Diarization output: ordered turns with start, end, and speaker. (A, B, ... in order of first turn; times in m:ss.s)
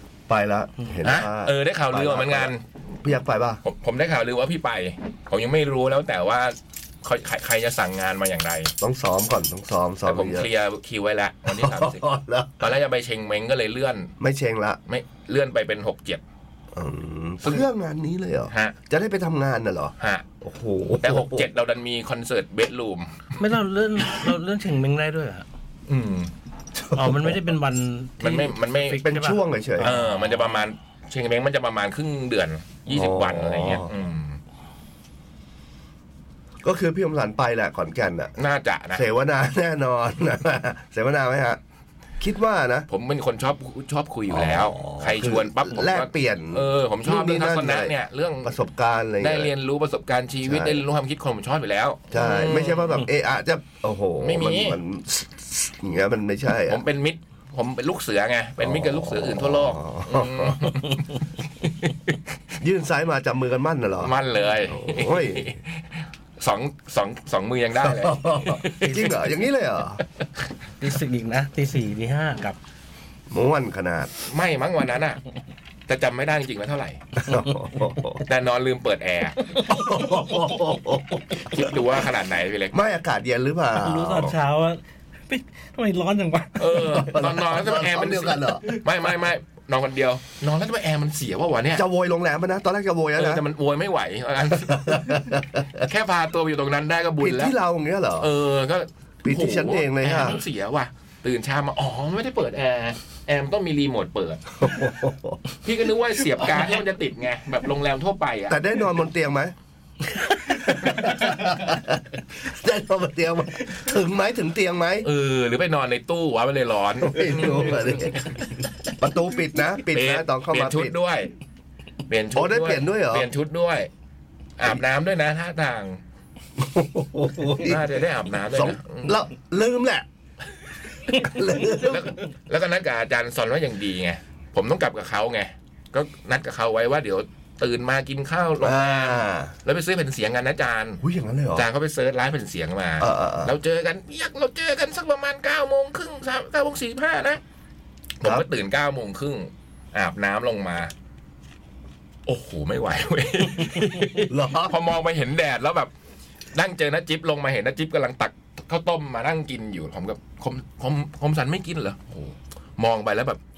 0:00.3-0:03.6 A
0:01.0-0:02.6 B
0:03.6-0:08.7 B
0:08.8-0:10.5 A
0:10.0-0:12.0 B
0:11.4-0:12.7 A
0:12.6-0:14.1 B
0:14.2-0:14.8 A
0:14.9-0:16.2 B
0:16.7-0:21.5 A
0:20.0-0:20.2 B
0:21.0-0:23.3 B
0:23.4-0:25.4 C
0:25.9-0:26.3 B
0:26.8-0:27.4 A
0:26.9-0:30.5 C
0:28.2-0:29.1 B
0:29.0-0:30.0 A
0:29.8-0:34.4 B
0:32.9-0:33.9 A
0:36.6-0:38.3 A
0:38.4-0:39.0 B
0:38.9-0:41.6 A
0:42.2-0:42.9 A
0:42.9-0:48.6 B
0:44.3-0:49.5 A
0:49.2-0:53.0 B
0:50.4-0:50.8 A
0:52.1-0:56.8 A
0:54.2-0:54.8 B
0:56.7-1:01.0 B
0:58.6-1:00.6 A
1:01.7-1:02.2 B
1:02.6-1:05.5 A
1:04.0-1:08.8 B
1:07.8-1:10.0 A
1:08.6-1:09.2 C
1:10.8-1:12.6 C
1:13.3-1:14.1 A
1:14.2-1:15.2 B
1:15.9-1:17.0 B
1:17.2-1:18.2 A
1:17.3-1:17.7 C
1:18.2-1:19.4 B
1:19.5-1:20.5 C
1:19.6-1:21.7 A
1:21.5-1:22.8 B
1:22.7-1:24.3 A
1:23.7-1:27.1 C
1:26.6-1:31.8 B
1:26.8-1:28.6 A
1:31.7-1:33.4 A
1:33.1-1:37.5 B
1:34.6-1:35.8 A
1:37.2-1:38.3 A
1:38.2-1:44.4 B
1:39.2-1:40.4 A
1:44.6-1:45.4 A
1:45.6-1:48.6 B
1:48.5-1:49.5 A
1:50.3-1:51.5 C
1:50.5-1:55.1 A
1:55.0-1:58.4 B
1:57.0-1:58.4 A
1:59.0-2:00.9 A
1:59.9-2:01.3 B
2:02.1-2:03.9 B
2:02.3-2:03.3 A
2:04.6-2:06.0 B
2:06.6-2:07.9 A
2:07.6-2:09.2 B
2:08.5-2:10.0 A
2:11.1-2:12.2 A
2:11.8-2:21.0 B
2:18.6-2:19.5 A
2:21.0-2:21.7 A
2:21.5-2:27.4 B
2:23.0-2:23.5 A
2:28.2-2:30.9 B
2:32.2-2:35.9 B
2:34.3-2:34.8 A
2:36.5-2:43.4 B